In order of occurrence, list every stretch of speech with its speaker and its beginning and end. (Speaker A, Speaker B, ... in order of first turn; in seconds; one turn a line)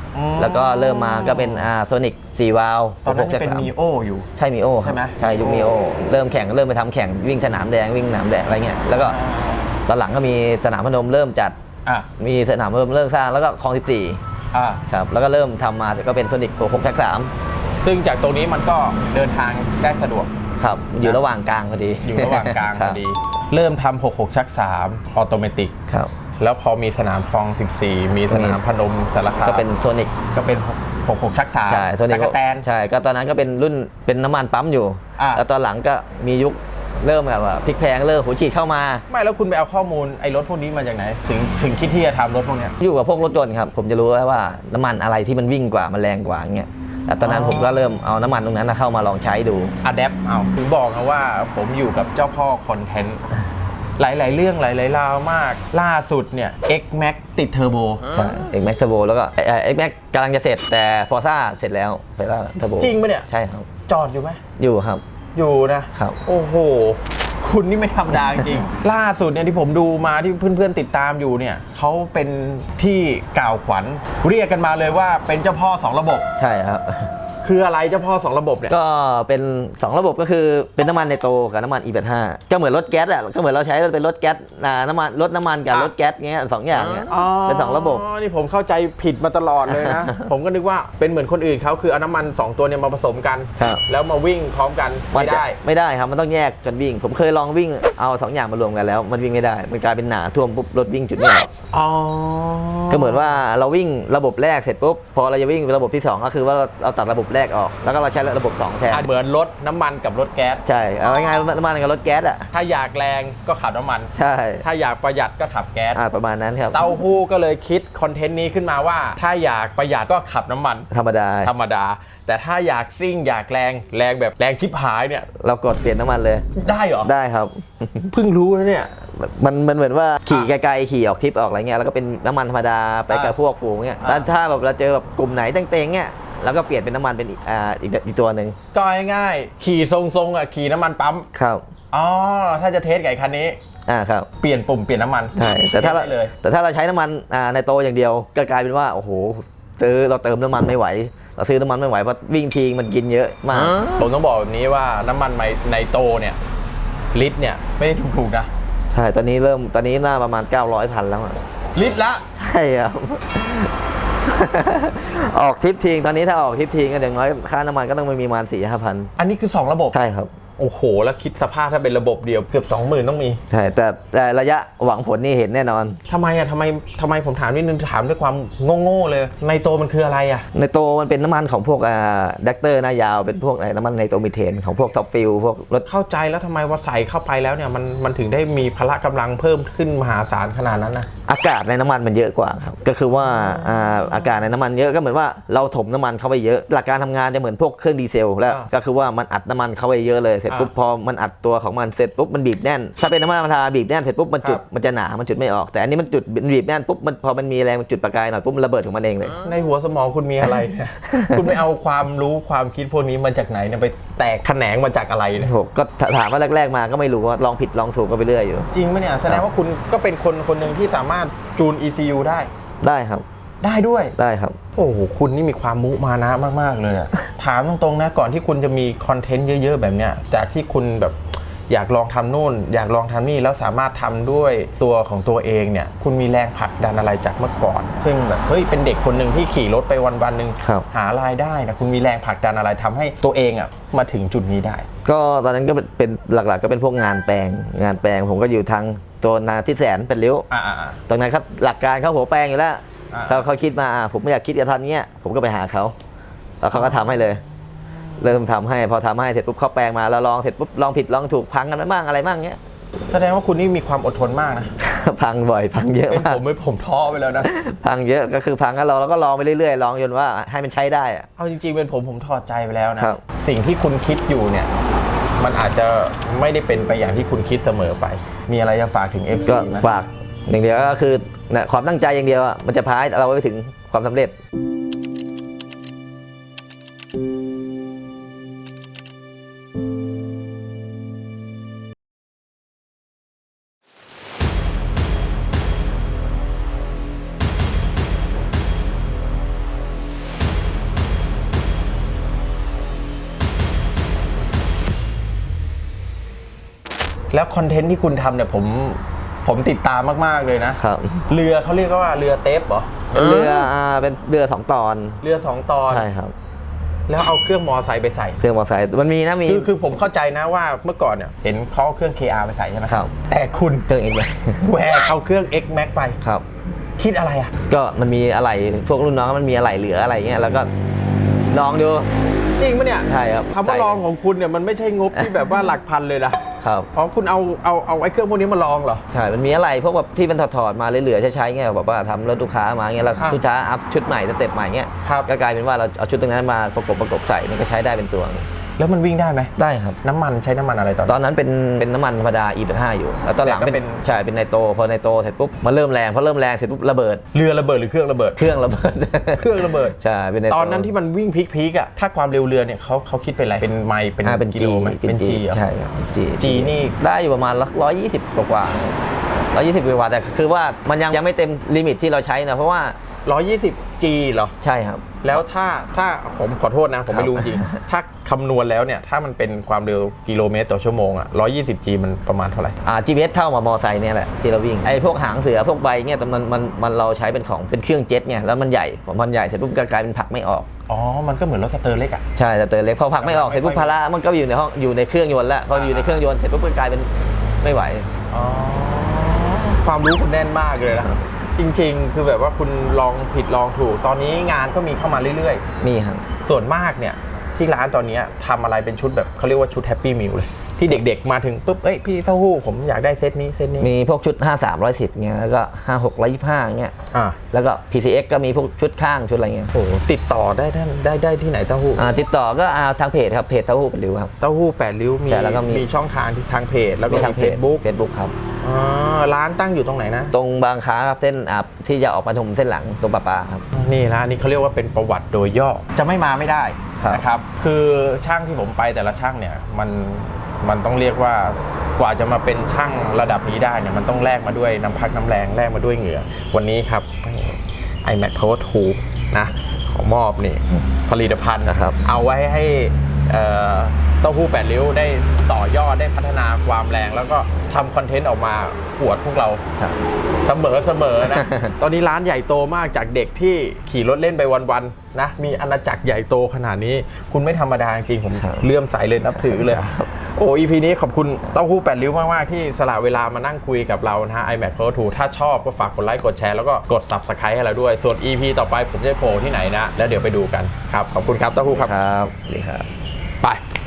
Speaker A: 0.1-1.7
Speaker B: 0.4-3.7
Speaker A: 3.0-4.3
Speaker B: 4.3-9.2
Speaker A: 4.8-5.8
Speaker A: 8.9-9.8
Speaker B: 9.9-11.5
Speaker B: 12.2-14.2
Speaker A: 14.5-14.8
Speaker B: 14.9-17.3
Speaker A: 17.8-20.3
Speaker B: 20.6-23.0
Speaker A: 22.0-25.7
Speaker A: 26.4-29.7
Speaker B: 28.3-28.6
Speaker B: 29.4-30.2
Speaker A: 30.3-32.7
Speaker B: 31.6-39.0
Speaker A: 35.2-35.4
Speaker A: 39.1-42.7
Speaker B: 42.8-49.8
Speaker A: 47.2-48.0
Speaker A: 49.8-53.2
Speaker A: 54.0-58.0
Speaker B: 58.1-63.7
Speaker A: 62.8-63.3
Speaker A: 63.9-64.4
Speaker B: 64.6-65.0
Speaker A: 65.3-76.3
Speaker B: 65.9-66.2
Speaker B: 76.4-77.1
Speaker A: 77.4-78.7
Speaker B: 78.7-88.0
Speaker A: 87.1-95.6
Speaker B: 89.7-90.2
Speaker B: 95.1-101.5
Speaker A: 101.7-103.4
Speaker B: 102.9-109.1
Speaker A: 108.9-110.6
Speaker B: 110.6-112.5
Speaker A: 112.5-116.0
Speaker B: 114.1-114.6
Speaker B: 115.9-116.9
Speaker A: 116.7-120.9
Speaker B: 120.9-121.5
Speaker A: 121.4-125.3
Speaker B: 125.3-128.1
Speaker A: 126.5-127.1
Speaker A: 128.1-128.9
Speaker B: 129.0-138.6
Speaker A: 133.1-133.3
Speaker A: 134.0-134.3
Speaker A: 138.7-141.3
Speaker B: 141.3-141.6
Speaker A: 141.9-143.6
Speaker B: 143.9-144.3
Speaker A: 144.4-146.3
Speaker B: 145.3-153.9
Speaker A: 153.8-156.4
Speaker A: 157.1-158.5
Speaker B: 158.9-161.4
Speaker A: 161.7-162.2
Speaker B: 162.3-163.7
Speaker B: 164.2-169.1
Speaker A: 169.2-169.9
Speaker B: 169.9-170.3
Speaker A: 170.6-173.4
Speaker B: 173.5-176.0
Speaker A: 176.1-180.4
Speaker B: 180.5-185.8
Speaker A: 185.8-191.1
Speaker B: 191.3-209.4
Speaker A: 193.2-194.4
Speaker A: 209.4-215.5
Speaker B: 211.2-211.6
Speaker B: 215.4-218.7
Speaker A: 218.7-222.5
Speaker B: 222.8-223.2
Speaker A: 223.6-224.1
Speaker B: 224.2-224.6
Speaker A: 224.7-231.2
Speaker A: 231.7-244.9
Speaker B: 245.0-250.5
Speaker A: 250.5-251.0
Speaker B: 251.1-255.9
Speaker A: 253.1-253.5
Speaker B: 256.6-257.4
Speaker A: 256.7-257.3
Speaker B: 258.2-262.6
Speaker A: 263.1-264.7
Speaker B: 264.8-266.4
Speaker A: 266.1-267.5
Speaker B: 267.4-271.3
Speaker A: 271.4-274.7
Speaker A: 275.4-279.9
Speaker B: 279.5-284.4
Speaker A: 307.3-313.1
Speaker B: 310.8-311.2
Speaker B: 313.1-315.2
Speaker A: 315.2-316.1
Speaker B: 315.9-316.3
Speaker A: 317.1-318.4
Speaker B: 318.4-319.7
Speaker A: 319.4-323.9
Speaker B: 322.9-323.1
Speaker B: 323.9-324.9
Speaker A: 324.6-326.2
Speaker A: 327.0-327.5
Speaker B: 327.7-330.7
Speaker B: 331.5-332.1
Speaker A: 332.6-339.0
Speaker B: 333.1-334.0
Speaker B: 335.1-335.6
Speaker B: 336.6-336.9
Speaker B: 339.1-348.5
Speaker A: 345.0-345.3
Speaker A: 348.8-351.2
Speaker B: 349.6-350.0
Speaker B: 351.1-357.2
Speaker A: 353.4-354.1
Speaker A: 357.3-358.4
Speaker B: 358.4-360.9
Speaker A: 359.4-359.9
Speaker A: 360.5-365.6
Speaker B: 364.2-369.0
Speaker A: 366.4-367.0
Speaker B: 369.5-373.0
Speaker A: 373.2-374.5
Speaker B: 374.6-375.4
Speaker A: 375.2-382.8
Speaker B: 377.1-377.8
Speaker B: 382.8-390.7
Speaker A: 390.9-392.2
Speaker B: 392.4-397.1
Speaker A: 393.2-393.9
Speaker A: 395.7-396.2
Speaker B: 397.6-398.1
Speaker A: 398.3-405.6
Speaker B: 400.9-401.2
Speaker B: 405.8-406.2
Speaker A: 406.4-413.9
Speaker B: 413.8-416.9
Speaker A: 417.1-417.4
Speaker B: 417.5-419.7
Speaker A: 419.7-422.1
Speaker B: 421.9-424.3
Speaker A: 424.4-427.8
Speaker B: 425.3-425.9
Speaker B: 427.1-428.3
Speaker A: 428.6-430.3
Speaker B: 430.3-433.6
Speaker A: 433.7-459.6
Speaker B: 437.0-437.2
Speaker B: 451.6-452.0
Speaker A: 460.4-481.9
Speaker B: 461.2-461.7
Speaker B: 468.4-468.7
Speaker B: 469.2-470.1
Speaker B: 481.7-482.9